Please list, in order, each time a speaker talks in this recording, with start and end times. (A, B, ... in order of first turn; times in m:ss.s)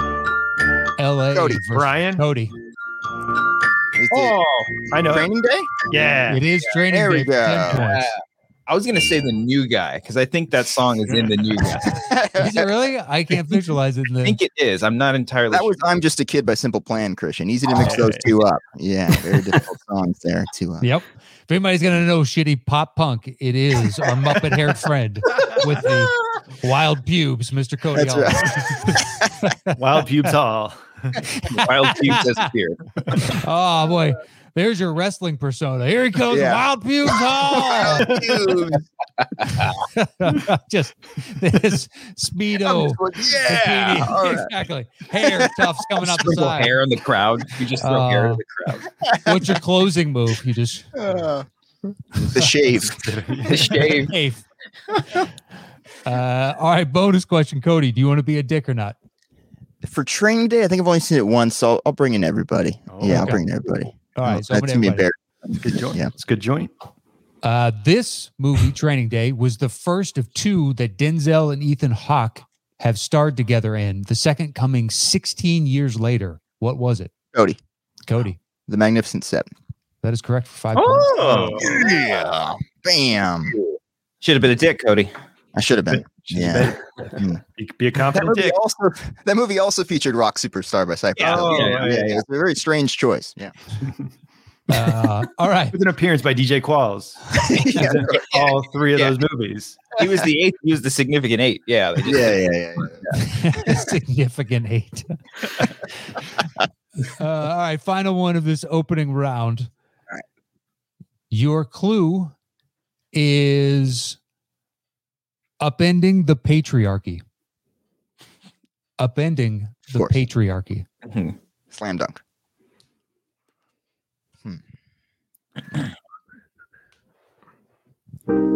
0:01.0-0:02.5 A
0:01.3-0:01.6 B
0:01.7-0:02.2 C
0:04.0-0:04.4 B
0:04.1-0:04.9 D
0:04.9-0:05.3 C
0:05.0-0:05.9 B
0:05.9-0:06.4 C
0:06.2-0:08.1 A
0:06.9-0:08.0 B
0:07.7-0:12.1 D
0:11.8-0:12.7 B
0:12.4-0:14.4 A
0:14.2-0:15.8 D
0:15.5-0:20.9 B
0:17.7-0:18.3 C
0:20.8-0:28.8 A
0:27.9-0:29.3 B
0:29.4-0:29.7 A
0:29.8-0:31.2 C
0:31.3-0:32.3 A
0:31.4-0:33.3 D
0:33.2-0:38.1 A
0:36.3-0:38.8 B
0:38.0-0:38.6 C
0:39.2-0:39.8 D
0:39.9-0:46.8 A
0:42.6-0:44.5 B
0:45.2-0:45.6 B
0:46.0-0:48.9 D
0:47.8-0:48.4 A
0:49.0-0:49.6 B
0:49.2-0:50.9 A
0:50.9-0:51.5 B
0:52.2-0:53.0 B
0:52.9-0:53.7 C
0:53.5-0:54.1 D
0:53.7-0:54.4 A
0:56.0-0:58.9 A
0:59.8-1:06.1 B
1:02.9-1:03.4 C
1:03.1-1:03.4 A
1:04.2-1:05.1 A
1:05.6-1:06.7 C
1:07.4-1:17.1 A
1:18.1-1:18.4 A
1:18.7-1:19.4 B
1:20.0-1:21.5 A
1:20.7-1:22.3 D
1:21.2-1:21.6 C
1:21.6-1:23.6 B
1:23.6-1:25.1 D
1:25.6-1:27.4 B
1:25.9-1:28.6 C
1:28.0-1:33.5 B
1:31.2-1:32.1 C
1:31.2-1:32.2 D
1:34.7-1:35.8 A
1:35.7-1:39.9 C
1:37.4-1:38.3 B
1:38.1-1:38.4 D
1:40.0-1:42.4 D
1:42.0-1:43.7 B
1:43.1-1:45.2 A
1:47.0-1:49.7 A
1:51.3-1:52.3 A
1:53.1-1:54.2 A
1:55.6-1:57.2 A
1:59.0-2:00.9 A
2:01.0-2:01.4 D
2:01.7-2:02.2 B